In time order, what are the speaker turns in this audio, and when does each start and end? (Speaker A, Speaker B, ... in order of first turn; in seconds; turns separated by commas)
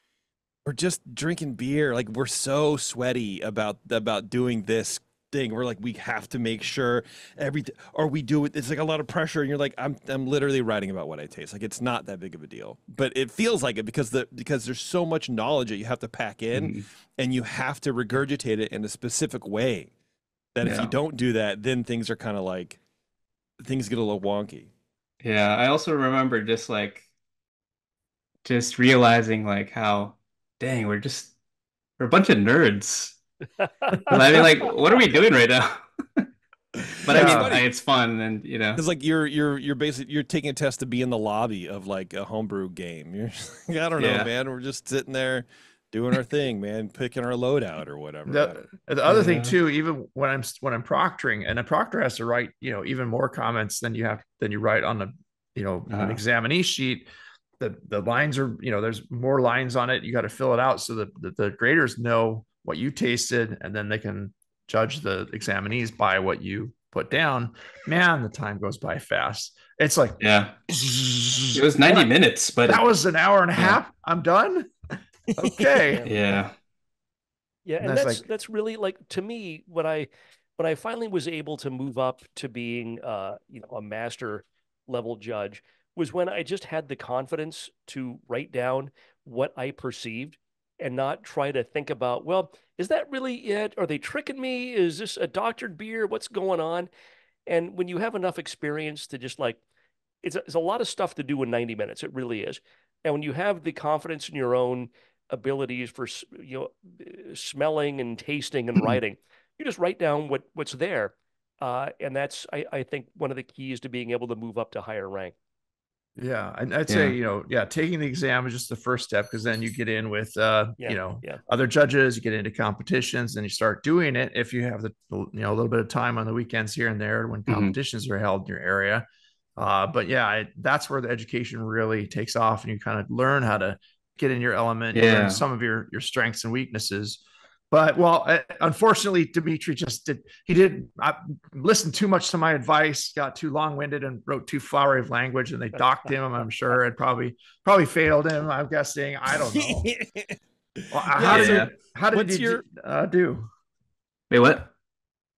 Speaker A: 0.7-19.9, Speaker B: 16.5-16.9, Speaker A: 20.6-22.8, Speaker B: 20.6-20.9, Speaker A: 23.6-24.7, Speaker B: 25.2-27.1, Speaker B: 28.4-31.3, Speaker B: 32.0-33.2, Speaker C: 33.6-34.1, Speaker B: 34.1-36.3, Speaker D: 34.1-34.5, Speaker A: 36.8-37.7, Speaker B: 37.0-38.8, Speaker D: 37.1-37.5, Speaker A: 38.8-48.6, Speaker B: 44.0-44.3, Speaker D: 48.3-57.1, Speaker B: 49.1-49.5, Speaker B: 55.9-56.2, Speaker D: 57.6-72.1, Speaker B: 70.2-70.5, Speaker B: 71.5-72.8, Speaker D: 72.6-74.7, Speaker D: 75.4-76.1, Speaker B: 76.0-76.5, Speaker C: 77.7-96.9, Speaker D: 77.8-78.3, Speaker C: 97.5-99.6, Speaker C: 100.2-115.3, Speaker D: 116.2-129.1, Speaker B: 116.9-117.2, Speaker C: 120.8-121.4, Speaker B: 127.5-127.7, Speaker D: 129.6-149.9, Speaker B: 134.9-135.4, Speaker A: 149.4-150.4, Speaker D: 150.9-153.5, Speaker A: 151.1-152.6, Speaker B: 151.2-151.7, Speaker B: 154.3-154.7